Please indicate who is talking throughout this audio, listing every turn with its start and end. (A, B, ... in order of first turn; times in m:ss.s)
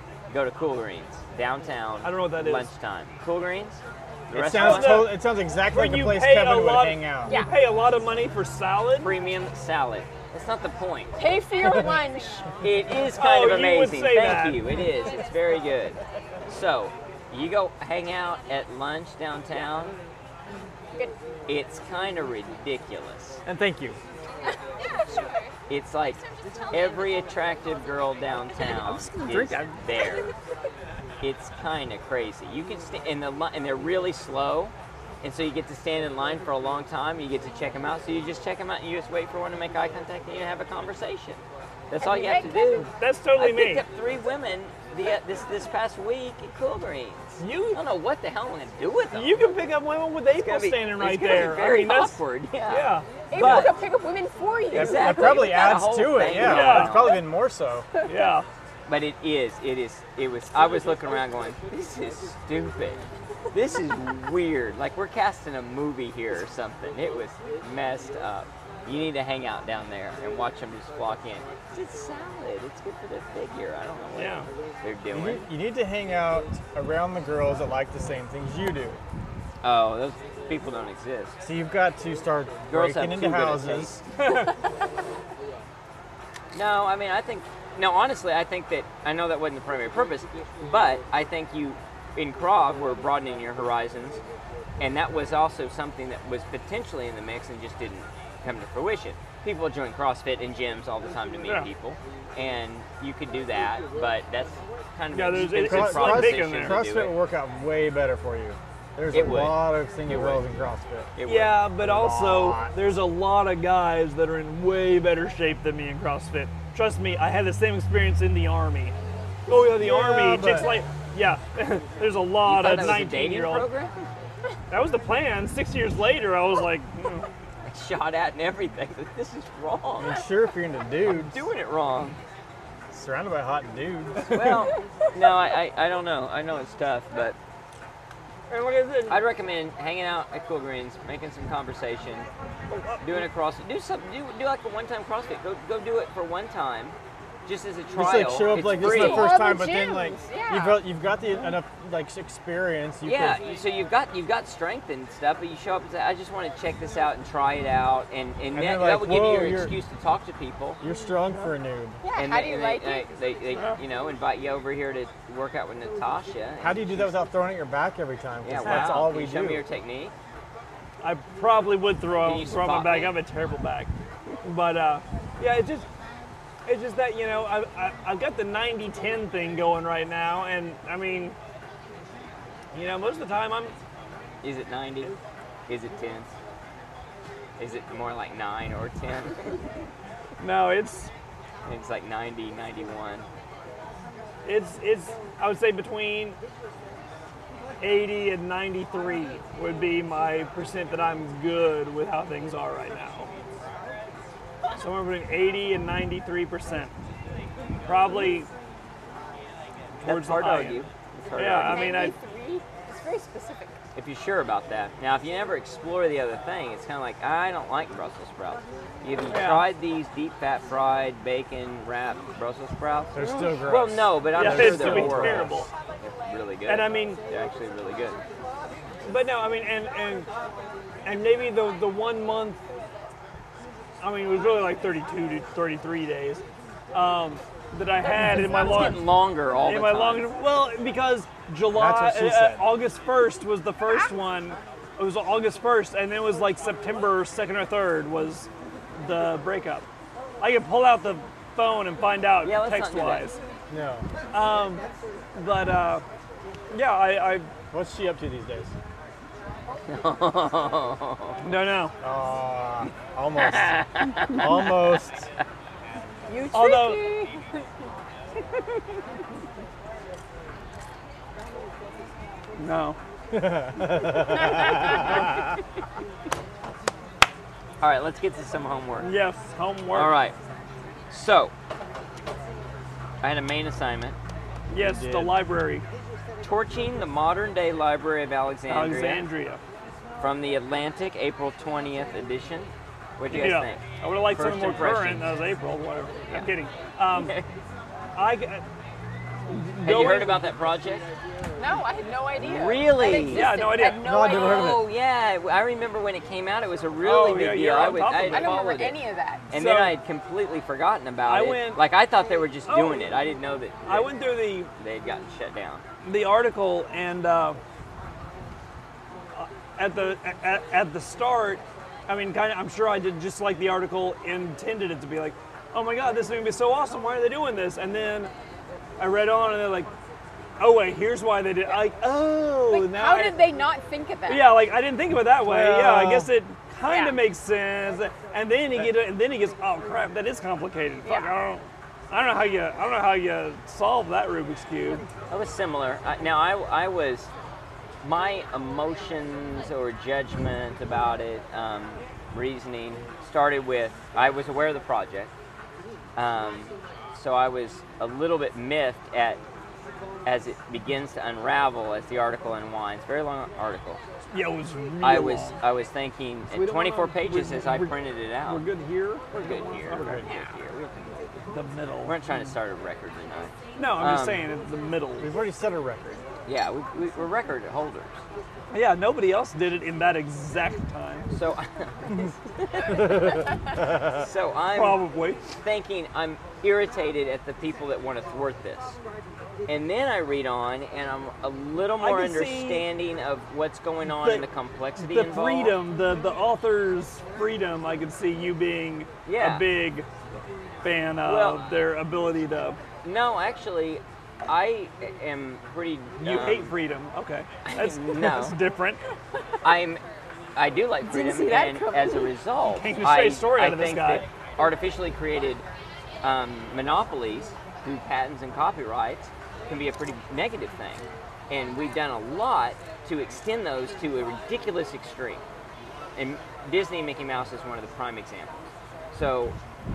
0:00.3-0:05.1 A
0:02.0-0:02.7 B
0:04.3-0:07.4 C
0:04.5-0:09.1 B
0:07.3-0:07.5 D
0:09.0-0:11.2 A
0:11.2-0:12.5 D
0:12.6-0:20.0 A
0:13.0-0:14.7 B
0:15.0-0:15.5 E
0:21.5-0:23.4 A
0:23.5-0:24.0 C
0:24.4-0:25.6 E
0:25.7-0:30.3 A
0:26.2-0:27.3 E
0:28.8-0:29.7 C
0:31.2-0:49.5 A
0:42.0-0:42.9 D
0:42.9-0:43.8 B
0:47.4-0:47.8 B
0:49.1-0:53.7 B
0:50.3-0:53.8 A
0:53.3-0:55.8 D
0:54.7-0:57.2 A
0:54.7-0:57.9 C
0:56.3-0:57.2 B
0:58.1-0:58.5 B
0:58.9-1:15.5 A
1:14.2-1:14.5 B
1:15.1-1:19.0 C
1:19.6-1:21.4 A
1:21.4-1:23.9 C
1:22.7-1:24.0 A
1:24.2-1:24.5 B
1:26.5-1:34.2 A
1:34.8-1:47.2 A
1:41.4-1:41.7 B
1:45.1-1:46.8 B
1:45.4-1:51.1 C
1:49.1-1:50.4 A
1:51.2-1:51.7 A
1:51.2-1:59.0 B
1:51.8-1:52.7 C
1:59.5-2:03.7 B
1:59.8-2:00.7 C
2:02.4-2:04.1 A
2:04.7-2:07.3 B
2:07.6-2:10.2 A
2:10.0-2:11.4 C
2:11.1-2:12.2 A
2:12.9-2:14.6 C
2:14.3-2:17.4 A
2:14.3-2:14.6 B
2:18.5-2:19.2 B
2:19.1-2:22.3 A
2:22.7-2:23.2 B
2:23.0-2:29.3 A
2:28.0-2:33.4 C
2:28.8-2:29.2 B
2:28.9-2:30.8 D
2:31.1-2:31.6 B
2:33.0-2:40.8 A
2:38.5-2:39.8 C
2:40.8-2:42.0 C
2:41.2-2:41.5 B
2:42.0-2:43.1 D
2:42.2-2:47.2 A
2:43.5-2:43.8 B
2:46.6-2:49.7 C
2:48.4-2:50.1 A
2:48.6-2:49.1 B
2:51.0-2:53.9 B
2:52.2-2:53.2 A
2:54.4-2:55.9 B
2:56.7-3:01.4 B
3:02.7-3:03.7 B
3:04.4-3:05.1 A
3:05.7-3:06.3 A
3:07.6-3:09.6 A
3:10.4-3:11.1 B
3:11.6-3:13.3 A
3:14.4-3:16.4 B
3:17.8-3:23.3 B
3:24.8-3:26.9 B
3:27.8-3:28.5 B
3:30.0-3:30.8 B
3:30.0-3:31.9 A
3:31.4-3:32.2 B
3:31.6-3:33.8 D
3:34.0-3:48.2 A
3:39.3-3:39.7 B
3:43.1-3:45.7 C
3:44.3-3:45.7 B
3:46.7-3:47.2 B
3:49.0-3:50.3 B
3:51.0-3:52.6 B
3:54.0-3:59.1 B
3:58.2-4:00.3 A
3:59.6-4:09.9 B
4:01.7-4:02.6 C
4:10.4-4:13.4 B
4:12.4-4:13.3 A
4:13.7-4:14.1 C
4:14.3-4:14.8 B
4:15.4-4:16.0 B
4:16.7-4:17.5 B
4:17.7-4:18.7 C
4:19.9-4:21.4 A
4:21.4-4:22.0 B
4:22.0-4:25.3 C
4:23.4-4:24.6 A
4:26.3-4:27.5 D
4:26.5-4:27.0 B
4:32.6-4:33.0 B
4:33.3-4:35.5 C
4:37.8-4:39.1 A
4:39.0-4:40.1 B
4:39.9-4:40.4 A
4:41.1-4:41.5 A
4:43.2-4:44.2 A
4:44.7-4:45.9 B
4:44.8-4:45.4 C
4:46.4-4:49.3 A
4:48.7-4:49.6 B
4:50.2-4:55.3 A
4:53.3-4:57.3 B
4:57.1-4:57.5 A
4:58.2-4:58.6 B
4:59.5-5:00.5 B
4:59.8-5:01.0 A
5:01.6-5:04.8 D
5:02.4-5:03.6 A
5:03.2-5:04.0 B
5:04.0-5:04.8 C
5:04.3-5:09.0 A
5:07.0-5:08.6 B
5:08.3-5:09.4 D
5:09.5-5:10.0 B
5:09.5-5:15.8 A
5:11.3-5:11.9 B
5:12.7-5:13.2 B
5:13.9-5:14.7 B
5:16.0-5:17.6 B
5:19.4-5:28.3 B
5:29.0-5:29.9 B
5:30.6-5:33.5 B
5:32.7-5:34.6 D
5:34.3-5:45.0 B
5:35.4-5:36.3 C
5:36.8-5:37.2 D
5:41.0-5:41.3 D
5:45.3-5:47.3 A
5:48.0-5:55.3 A
5:56.2-5:59.4 A
6:00.2-6:04.0 A
6:04.3-6:05.6 B
6:05.0-6:08.6 A
6:06.5-6:10.3 B
6:09.4-6:11.2 A
6:10.0-6:10.3 C
6:11.5-6:12.2 B
6:12.0-6:14.5 A
6:13.8-6:15.3 B
6:15.2-6:16.2 C
6:16.5-6:18.2 A
6:18.7-6:21.3 B
6:21.3-6:23.4 A
6:22.9-6:24.2 C
6:24.0-6:25.0 A
6:24.7-6:25.4 B
6:25.6-6:29.0 A
6:29.7-6:35.8 A
6:32.0-6:32.9 B
6:34.1-6:34.5 B
6:35.0-6:40.1 B
6:39.3-6:39.6 A
6:40.8-6:42.8 B
6:41.2-6:41.8 A
6:43.0-6:46.7 A
6:46.2-6:49.0 B
6:47.6-6:48.6 A
6:49.6-6:50.0 A
6:50.6-6:55.6 A
6:51.0-6:52.3 D
6:52.7-6:54.2 B
6:56.2-7:05.4 A
7:06.2-7:09.6 A